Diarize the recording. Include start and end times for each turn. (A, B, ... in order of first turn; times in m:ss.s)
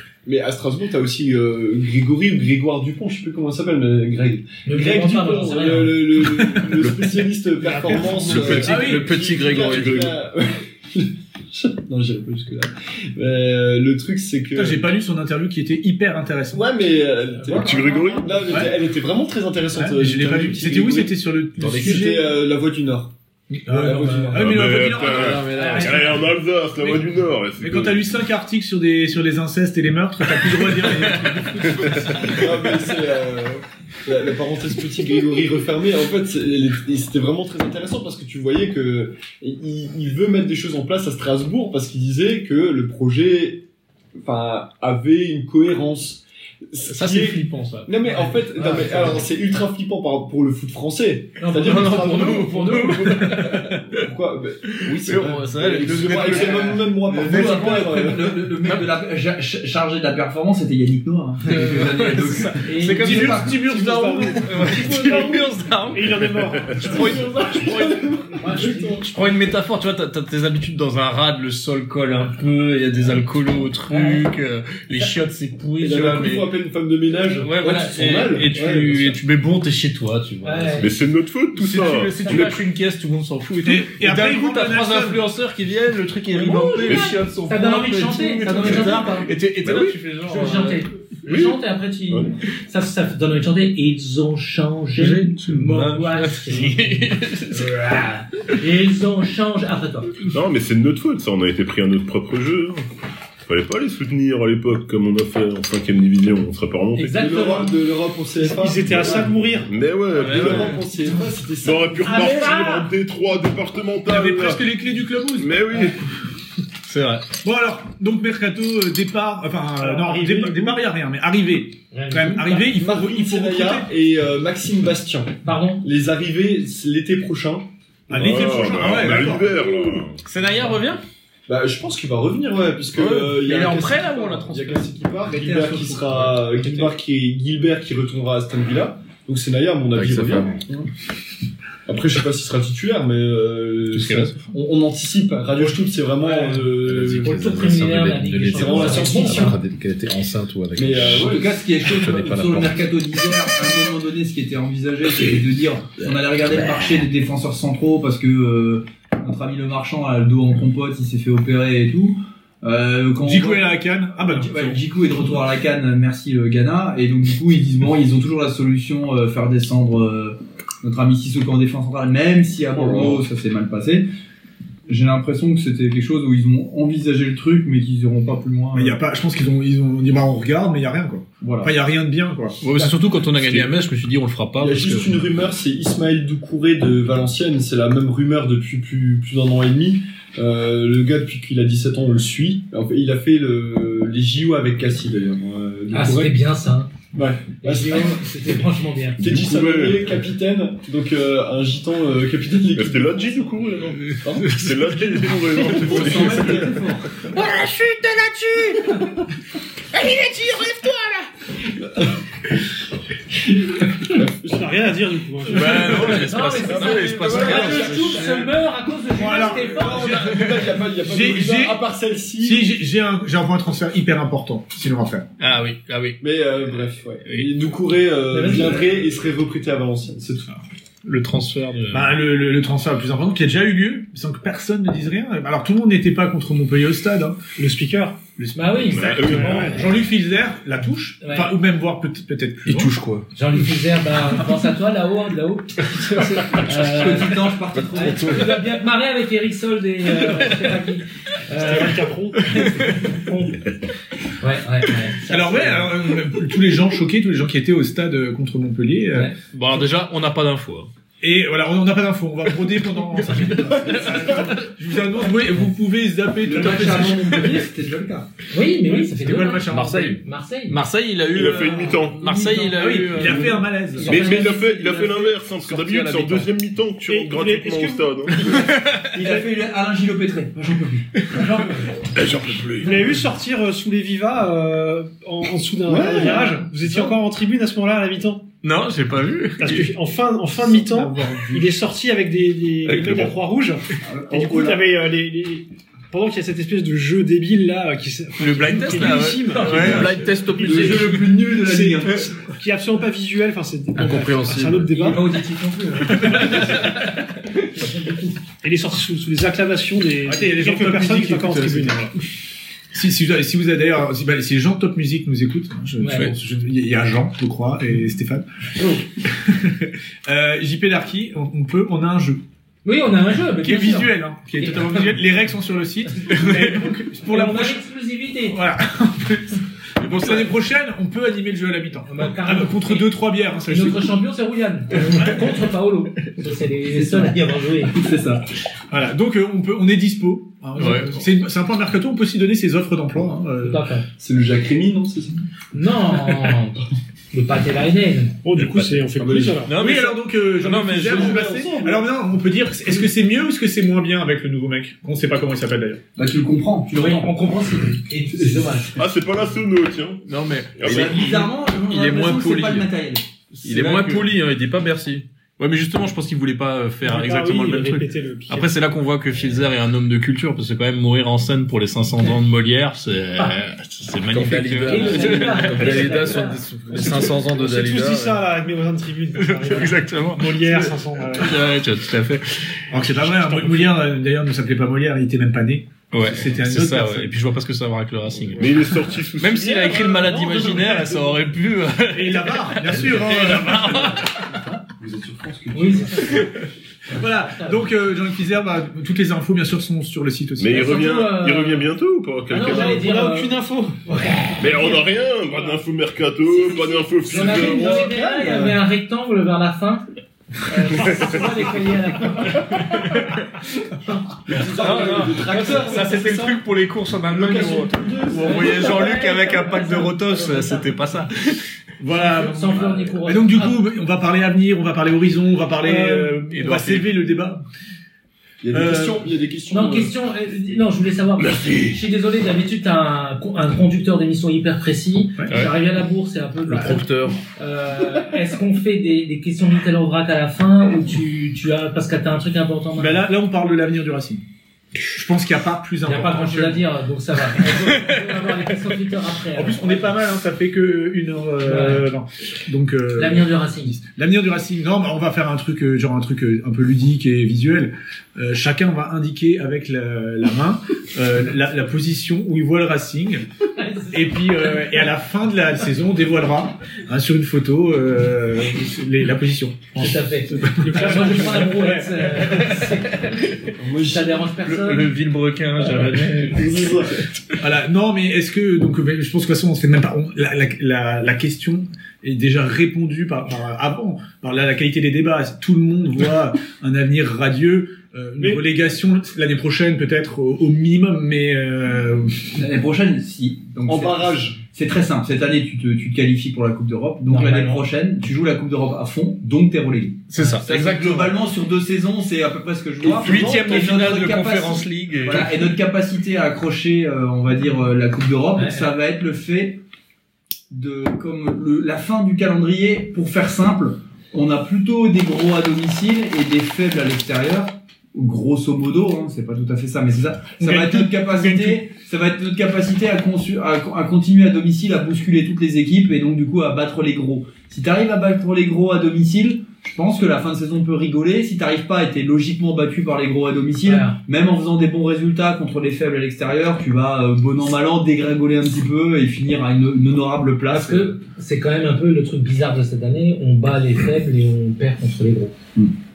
0:00.2-0:14.9 A
0:04.6-0:06.0 B
0:06.4-0:06.7 C
0:07.6-0:08.5 D
0:08.1-0:09.2 C
0:08.1-0:10.1 E
0:09.7-0:10.1 F
0:14.5-0:16.6 C
0:16.5-0:23.1 A
0:17.4-0:18.6 B
0:17.5-0:18.5 F
0:19.7-0:22.3 C
0:21.6-0:22.1 E
0:23.5-0:26.2 C
0:23.7-0:24.7 A
0:24.3-0:28.0 F
0:25.1-0:26.1 E
0:25.6-0:26.0 B
0:26.8-0:32.4 C
0:30.4-0:32.2 G
0:32.1-0:43.6 A
0:44.2-0:58.5 A
0:46.8-0:48.1 G
0:48.4-0:49.2 B
0:51.4-0:53.4 B
0:51.5-0:54.0 G
0:54.7-0:57.8 G
0:56.8-1:03.6 H
0:58.6-0:59.0 G
1:01.4-1:16.5 G
1:02.7-1:02.9 B
1:03.0-1:04.9 C
1:03.7-1:07.6 D
1:07.5-1:09.1 A
1:08.4-1:08.9 B
1:13.9-1:14.2 B
1:15.8-1:19.2 A
1:17.4-1:20.9 G
1:20.4-1:20.9 B
1:20.8-1:22.6 F
1:21.5-1:30.8 G
1:21.8-1:22.4 B
1:23.6-1:25.3 C
1:26.3-1:29.3 B
1:29.6-1:30.0 F
1:30.2-1:40.3 B
1:31.3-1:32.3 F
1:35.0-1:37.8 G
1:40.3-1:42.8 F
1:43.4-1:47.5 F
1:47.0-1:47.7 B
1:47.1-1:49.5 A
1:48.4-1:49.7 D
1:49.6-1:50.8 F
1:50.1-1:50.8 G
1:50.1-1:52.4 A
1:51.6-1:54.6 F
1:52.1-1:52.9 B
1:54.0-1:55.9 C
1:55.4-1:56.0 F
1:56.8-1:57.3 G
1:57.4-2:03.9 C
1:59.8-2:00.8 D
2:01.9-2:02.7 B
2:02.5-2:08.6 A
2:05.4-2:05.8 B
2:08.1-2:09.6 C
2:08.1-2:10.2 F
2:10.2-2:11.0 G
2:11.5-2:20.9 A
2:12.9-2:14.9 G
2:15.3-2:16.4 H
2:15.9-2:16.9 G
2:19.9-2:20.6 E
2:21.8-2:27.3 A
2:23.9-2:24.5 G
2:26.7-2:32.9 E
2:27.2-2:29.6 B
2:28.5-2:29.5 A
2:28.8-2:29.2 G
2:30.8-2:31.4 A
2:31.0-2:54.1 H
2:43.2-2:44.8 C
2:52.7-2:53.2 A
2:54.9-2:59.0 H
2:58.7-3:02.6 C
3:01.4-3:01.7 H
3:02.6-3:05.2 G
3:04.6-3:16.4 A
3:15.9-3:16.9 B
3:17.1-3:18.3 A
3:17.6-3:19.3 B
3:19.2-3:20.1 F
3:19.2-3:24.6 A
3:22.7-3:26.7 F
3:24.4-3:25.4 G
3:25.6-3:26.6 A
3:25.6-3:27.1 H
3:27.3-3:29.1 B
3:30.0-3:31.1 B
3:34.0-3:34.9 A
3:34.4-3:36.1 D
3:35.5-3:38.2 G
3:35.9-3:40.2 B
3:36.6-3:38.2 E
3:36.7-3:38.5 A
3:39.1-3:41.8 C
3:39.6-3:42.7 A
3:42.4-3:45.3 C
3:45.4-3:46.2 G
3:46.2-3:50.6 A
3:47.2-3:47.5 G
3:48.3-3:48.9 B
3:51.0-3:52.2 G
3:51.9-3:57.4 C
3:57.6-3:58.2 D
3:58.4-4:02.9 C
3:58.5-3:59.8 B
3:58.8-3:59.9 F
3:59.3-3:59.6 D
4:01.2-4:01.5 B
4:02.7-4:03.2 E
4:03.3-4:13.6 B
4:06.0-4:06.6 G
4:06.6-4:08.6 H
4:07.9-4:08.5 E
4:11.5-4:12.7 D
4:12.4-4:13.2 G
4:14.4-4:15.9 B
4:15.2-4:19.8 C
4:19.5-4:20.9 G
4:21.2-4:27.6 C
4:23.2-4:24.7 G
4:26.4-4:28.3 H
4:28.5-4:30.8 B
4:28.8-4:30.2 C
4:29.7-4:30.1 E
4:30.7-4:36.5 G
4:31.3-4:32.4 F
4:32.7-4:34.2 C
4:34.0-4:35.3 B
4:34.0-4:38.5 F
4:37.1-4:38.7 D
4:38.4-4:39.2 G
4:39.1-4:41.5 H
4:41.4-4:41.6 B
4:42.1-4:42.9 F
4:42.8-4:48.4 D
4:45.8-4:47.1 A
4:48.6-4:49.9 G
4:49.6-5:05.3 D
4:51.2-4:51.5 G
4:52.9-4:53.3 G
4:54.0-4:54.8 H
4:58.4-5:01.3 G
4:59.5-4:59.9 B
5:00.2-5:01.0 E
5:00.6-5:02.3 H
5:04.0-5:05.2 E
5:05.1-5:06.9 B
5:06.2-5:06.9 G
5:07.7-5:08.4 B
5:08.6-5:12.1 D
5:10.2-5:12.1 C
5:12.9-5:22.4 C
5:16.0-5:16.3 B
5:22.8-5:25.1 B
5:23.6-5:27.8 C
5:26.3-5:28.6 B
5:28.5-5:34.2 C
5:30.0-5:30.5 G
5:32.1-5:33.1 B
5:33.7-5:38.0 B
5:36.9-5:38.4 H
5:38.9-5:43.8 C
5:40.7-5:41.2 G
5:43.6-5:44.0 B
5:44.2-5:45.4 A
5:45.7-5:48.4 B
5:48.4-5:49.7 D
5:49.2-5:49.6 A
5:49.6-5:51.4 G
5:49.8-5:56.0 C
5:51.0-5:52.0 A
5:56.2-5:57.5 H
5:57.0-5:59.0 B
5:58.3-5:58.8 H
5:58.9-6:00.2 F
6:00.3-6:00.9 G
6:00.8-6:01.3 F
6:00.8-6:03.2 H
6:00.8-6:02.8 E
6:03.6-6:17.5 G
6:03.6-6:05.2 E
6:07.0-6:08.7 D
6:14.3-6:18.4 E
6:14.9-6:16.6 B
6:16.9-6:21.6 D
6:19.3-6:22.6 G
6:22.9-6:27.3 C
6:23.4-6:23.9 D
6:26.1-6:34.5 G
6:28.5-6:30.2 F
6:32.1-6:34.3 C
6:34.5-6:36.5 A
6:35.7-6:36.5 B
6:37.1-6:41.1 C
6:37.5-6:37.8 B
6:40.6-6:43.0 F
6:40.7-6:41.9 B
6:42.5-6:43.5 B
6:42.6-6:44.9 D
6:44.4-6:44.9 B
6:44.6-6:48.0 F
6:46.5-6:50.0 B
6:47.2-6:48.8 A
6:50.7-6:53.3 B
6:54.0-6:54.4 B
6:54.5-6:56.6 A
6:54.6-7:01.6 G
6:57.3-6:59.3 A
6:58.4-7:00.9 B
7:02.0-7:07.6 C
7:02.1-7:03.8 B
7:05.8-7:06.2 D
7:06.4-7:07.1 G
7:08.6-7:10.1 A
7:08.7-7:09.3 C
7:09.7-7:17.0 B
7:11.4-7:12.0 F
7:15.4-7:15.7 C
7:15.5-7:15.7 G
7:17.6-7:23.2 B
7:23.0-7:24.4 C
7:25.1-7:26.8 C
7:26.0-7:30.1 B
7:29.5-7:43.5 C
7:31.6-7:32.0 B
7:33.2-7:34.0 B
7:43.8-7:44.3 B
7:44.1-7:52.8 C
7:50.0-7:53.4 B
7:50.8-7:51.6 D
7:52.4-7:53.6 G
7:53.7-7:54.5 A
7:54.0-7:55.1 B
7:54.6-7:57.0 G
7:56.5-7:57.2 A
7:57.6-8:12.5 C
8:12.6-8:29.8 H
8:13.8-8:14.6 A
8:17.3-8:17.7 G
8:20.3-8:21.4 G
8:23.0-8:23.9 A
8:23.1-8:25.7 G
8:28.6-8:28.9 B
8:30.7-9:01.2 H
8:40.6-8:41.8 C
8:53.8-8:54.2 B
9:00.7-9:05.5 B